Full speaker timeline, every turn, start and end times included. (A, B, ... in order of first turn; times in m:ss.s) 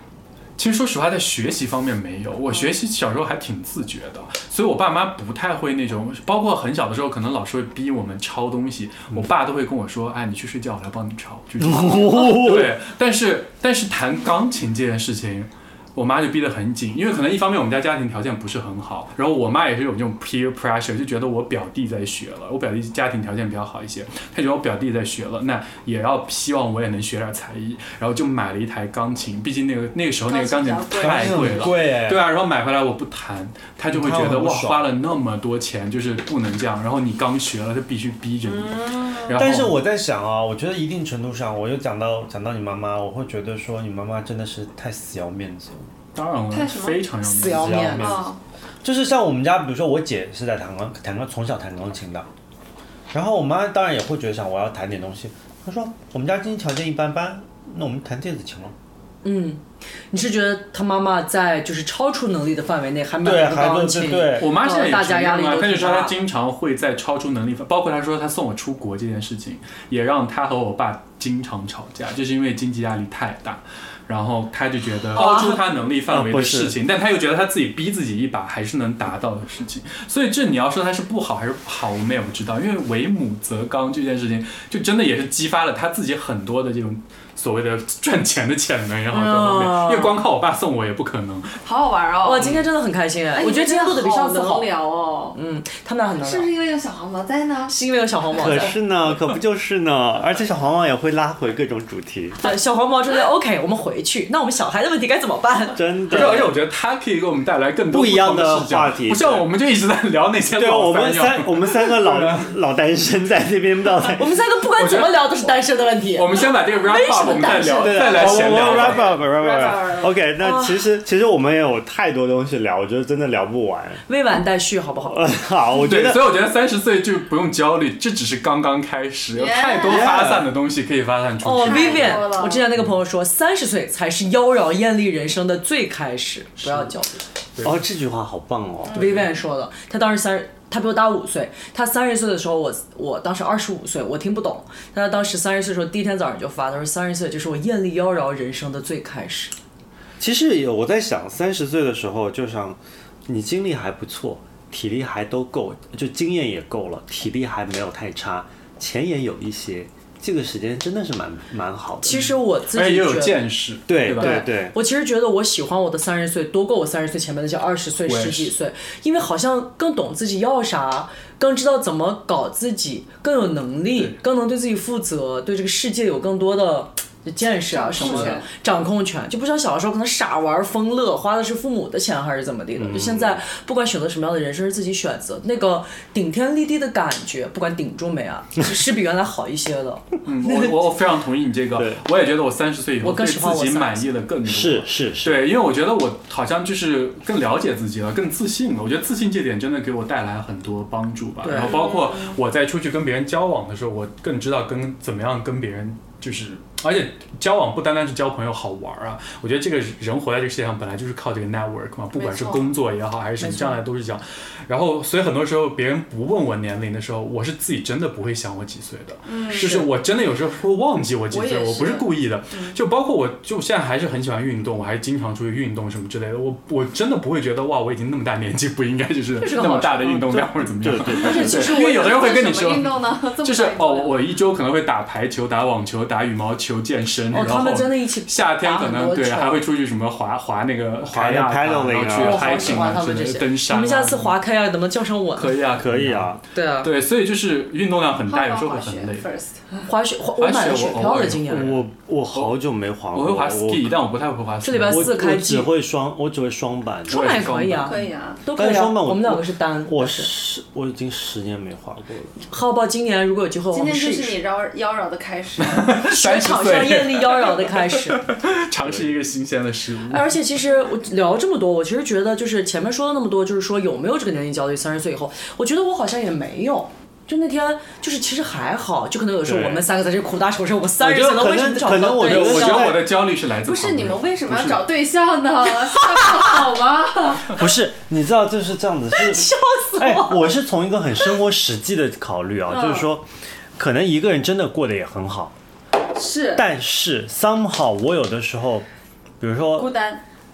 0:00.6-0:39.8 A
0:11.6-0:12.8 B
0:30.3-0:31.8 C
0:31.0-0:32.3 B
0:33.9-0:34.9 B
0:38.4-0:39.4 C
0:39.3-0:45.9 B
0:46.1-0:48.2 A
0:46.5-0:47.0 C
0:47.2-0:48.2 D
0:47.5-0:48.2 B
0:48.0-0:48.4 C
0:48.8-0:52.3 B
0:53.1-0:58.7 B
0:59.2-1:06.1 D
1:03.2-1:04.5 B
1:04.4-1:31.6 A
1:15.1-1:15.6 D
1:16.1-1:16.8 B
1:29.1-1:30.2 D
1:31.6-1:32.5 C
1:32.2-1:34.7 D
1:33.3-1:35.4 C
1:35.3-1:36.5 D
1:36.2-1:37.7 C
1:37.7-1:38.8 D
1:38.4-1:42.4 B
1:42.4-1:45.8 D
1:45.7-1:46.5 B
1:46.1-1:52.5 A
1:47.9-1:49.5 B
1:50.5-1:54.3 B
1:54.2-1:58.6 D
1:54.8-1:55.4 A
1:56.1-1:59.1 A
1:57.6-2:04.0 B
1:58.5-2:00.1 C
2:00.4-2:00.8 D
2:04.1-2:05.3 D
2:05.0-2:06.3 B
2:05.8-2:12.3 A
2:09.3-2:10.2 C
2:09.9-2:10.5 B
2:11.4-2:17.2 D
2:11.6-2:12.7 C
2:16.6-2:16.9 A
2:17.6-2:19.2 B
2:18.9-2:19.2 C
2:18.9-2:29.5 D
2:30.2-2:42.3 B
2:42.0-2:43.5 D
2:42.1-2:44.5 A
2:43.9-2:44.8 B
2:44.0-3:10.9 D
2:48.0-2:48.5 A
2:57.7-2:58.5 C
2:58.0-2:58.3 A
3:02.7-3:03.4 B
3:10.2-4:04.4 A
3:11.7-3:12.0 B
3:13.0-3:14.1 D
3:14.4-3:15.5 B
3:21.4-3:21.8 D
3:21.5-3:22.4 C
3:32.1-3:32.7 C
3:33.4-3:33.8 D
3:39.3-3:39.9 C
3:41.3-3:42.8 C
3:49.4-3:50.3 D
3:50.0-3:51.7 B
3:51.2-3:52.1 D
3:51.2-3:54.2 C
3:57.3-3:59.6 D
4:01.0-4:03.0 B
4:02.2-4:05.6 D
4:05.3-4:09.2 A
4:05.8-4:06.4 B
4:06.5-4:06.9 D
4:08.3-4:09.8 C
4:09.8-4:11.8 D
4:10.4-4:12.6 A
4:11.5-4:14.0 B
4:13.1-4:15.1 A
4:14.6-4:15.7 D
4:14.9-4:17.6 B
4:17.1-4:20.3 D
4:17.1-4:18.1 A
4:17.8-4:18.4 C
4:18.5-4:22.3 B
4:22.5-4:24.4 D
4:23.7-4:25.9 C
4:25.6-4:30.4 A
4:26.0-4:28.2 D
4:30.1-4:43.0 D
4:39.4-4:39.8 A
4:41.0-4:43.2 B
4:42.1-4:44.9 A
4:43.6-4:47.5 C
4:47.5-4:55.6 B
4:49.1-4:50.5 D
4:52.7-4:53.1 C
4:56.1-4:56.6 C
4:56.5-4:58.8 B
4:59.4-5:00.0 B
4:59.7-5:00.2 C